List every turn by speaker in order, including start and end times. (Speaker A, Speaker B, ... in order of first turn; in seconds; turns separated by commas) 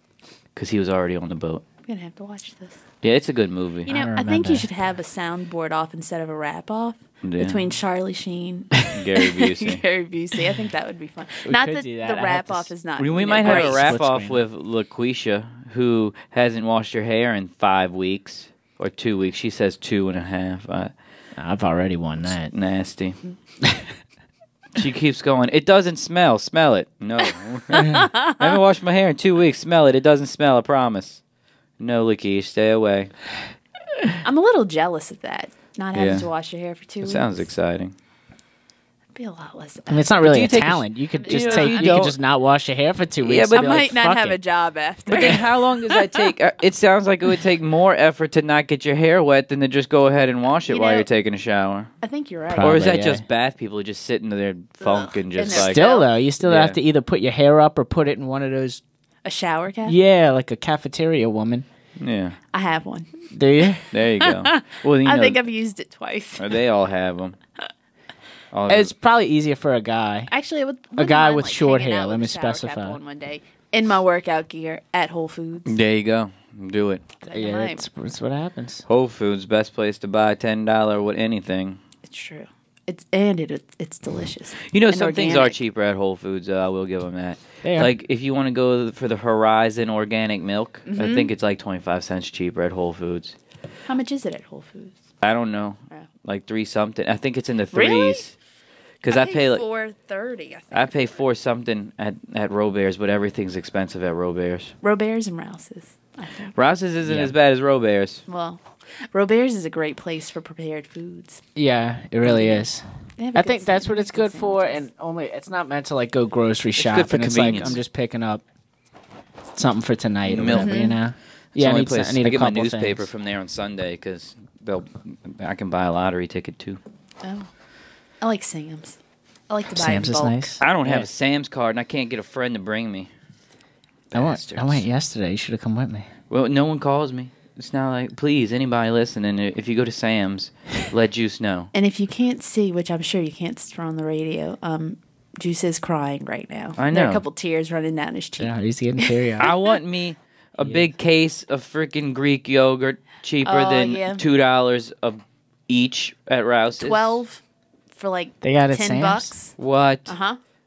Speaker A: 0.5-1.6, Speaker B: 1.9-2.8, Speaker A: 3.0-3.9, Speaker B: 3.9-14.0, Speaker C: 3.9-4.7, Speaker A: 7.2-7.7, Speaker A: 8.9-9.8, Speaker C: 11.4-12.7, Speaker A: 13.0-20.9, Speaker C: 13.4-14.4, Speaker C: 21.4-22.5, Speaker A: 22.5-23.2, Speaker A: 24.8-31.2, Speaker B: 27.9-28.4, Speaker A: 31.8-33.1, Speaker B: 34.2-37.4, Speaker A: 35.9-36.3, Speaker A: 37.0-37.9, Speaker B: 39.1-40.5, Speaker C: 39.9-44.4, Speaker A: 40.2-42.1, Speaker B: 41.2-42.1, Speaker A: 43.2-43.9, Speaker B: 43.5-46.1, Speaker A: 45.1-51.9, Speaker B: 50.6-51.1, Speaker B: 52.0-52.7, Speaker C: 52.5-53.2, Speaker A: 52.6-55.9, Speaker B: 54.8-56.1, Speaker C: 55.5-58.8, Speaker A: 56.4-56.8, Speaker B: 59.2-60.0, Speaker C: 59.8-61.6, Speaker A: 62.0-62.4, Speaker B: 62.5-63.1, Speaker C: 63.3-63.8, Speaker A: 63.9-65.4, Speaker B: 64.2-66.5, Speaker A: 66.4-67.4, Speaker A: 68.5-68.9, Speaker C: 68.7-70.3, Speaker B: 70.3-75.7, Speaker C: 71.0-73.0, Speaker A: 75.7-77.0, Speaker B: 77.2-77.8, Speaker C: 77.3-78.8, Speaker A: 78.9-81.8, Speaker B: 82.0-85.6, Speaker A: 84.7-93.3, Speaker C: 87.6-87.9, Speaker B: 90.8-91.3, Speaker B: 93.9-95.0, Speaker A: 95.2-98.3, Speaker B: 97.7-98.2, Speaker A: 99.0-99.7, Speaker B: 99.1-101.2, Speaker A: 100.7-104.7, Speaker B: 104.8-106.5, Speaker A: 106.5-108.2, Speaker C: 107.0-107.3, Speaker B: 108.3-111.4, Speaker C: 111.5-112.8, Speaker B: 113.2-114.8, Speaker C: 113.3-118.4, Speaker A: 116.8-117.8, Speaker C: 119.5-123.0, Speaker A: 120.3-120.9, Speaker B: 120.5-121.0, Speaker A: 121.5-126.8, Speaker B: 127.2-127.5, Speaker B: 128.2-130.6, Speaker C: 129.7-131.1, Speaker A: 130.6-133.1, Speaker A: 134.1-134.8, Speaker C: 134.1-136.1, Speaker A: 136.3-141.7, Speaker B: 141.7-149.7, Speaker A: 146.8-147.2, Speaker C: 148.4-149.5, Speaker A: 149.4-157.2, Speaker C: 150.6-150.9, Speaker B: 153.4-154.2, Speaker B: 156.8-157.4, Speaker B: 157.9-159.5, Speaker C: 158.4-159.3, Speaker A: 159.6-160.1, Speaker B: 160.1-160.4